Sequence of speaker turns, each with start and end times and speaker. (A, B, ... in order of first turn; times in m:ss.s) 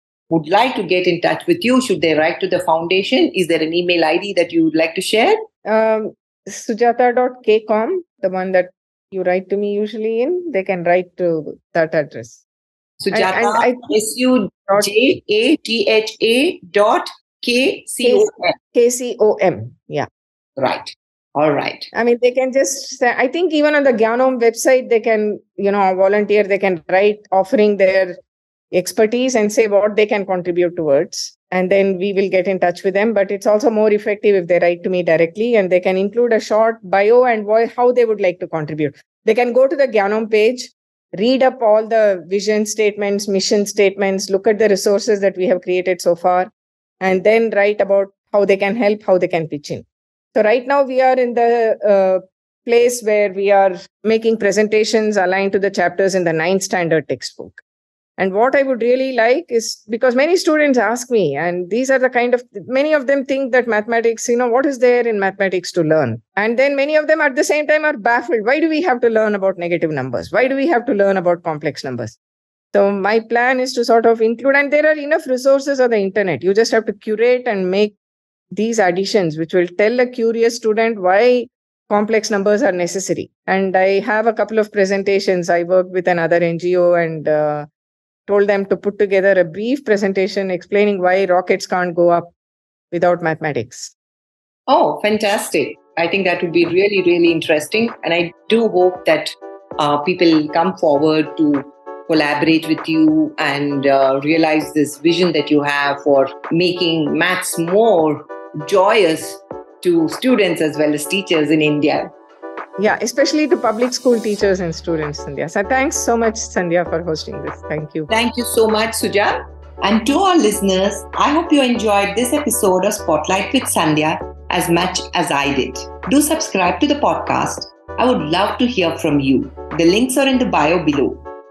0:00.3-0:05.4 A
0:05.6-0:12.4 B
0:13.0-0:18.5 A
0:13.1-0:14.0 B
0:18.0-0:20.1 B
0:20.6-0:21.9 A
0:21.9-0:28.2 B
0:28.7-0:57.6 B
0:58.2-1:12.2 B
1:12.7-1:17.9 B
1:18.5-1:27.7 B
1:28.3-1:32.3 B
1:32.9-1:33.9 B
1:34.7-1:52.1 A
1:52.8-1:58.1 B
1:58.1-2:11.2 A